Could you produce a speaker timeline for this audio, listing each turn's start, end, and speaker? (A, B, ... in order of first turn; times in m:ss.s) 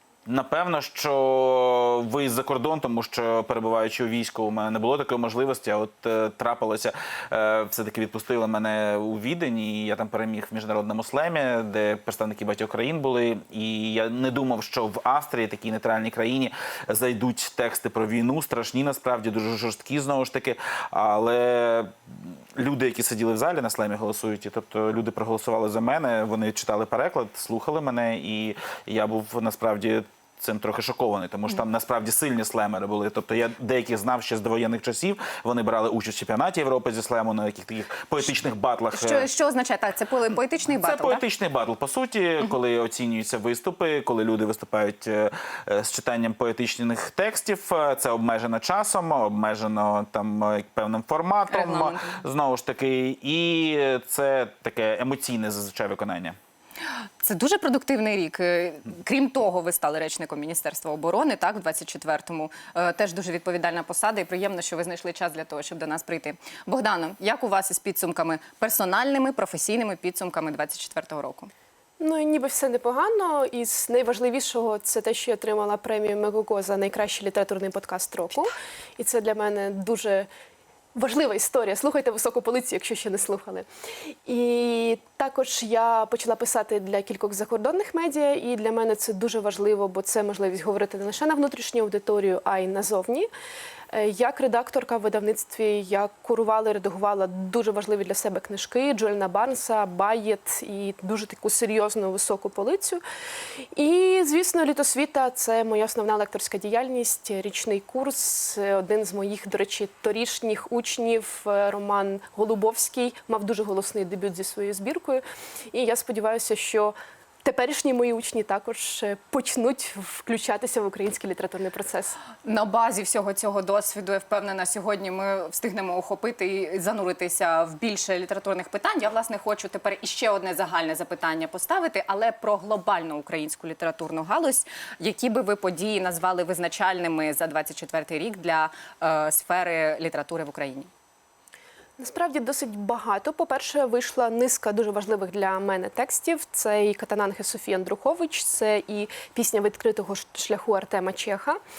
0:00.3-0:39.3 A
0:38.9-0:41.2 B
0:40.8-0:56.4 A
0:51.5-0:52.2 B
0:57.2-1:11.5 B
1:12.0-1:20.3 C
1:21.0-1:23.7 C
1:24.2-1:33.3 C
1:33.9-1:43.0 C
1:43.8-2:02.2 C
2:02.4-2:20.9 B
2:22.0-2:31.6 C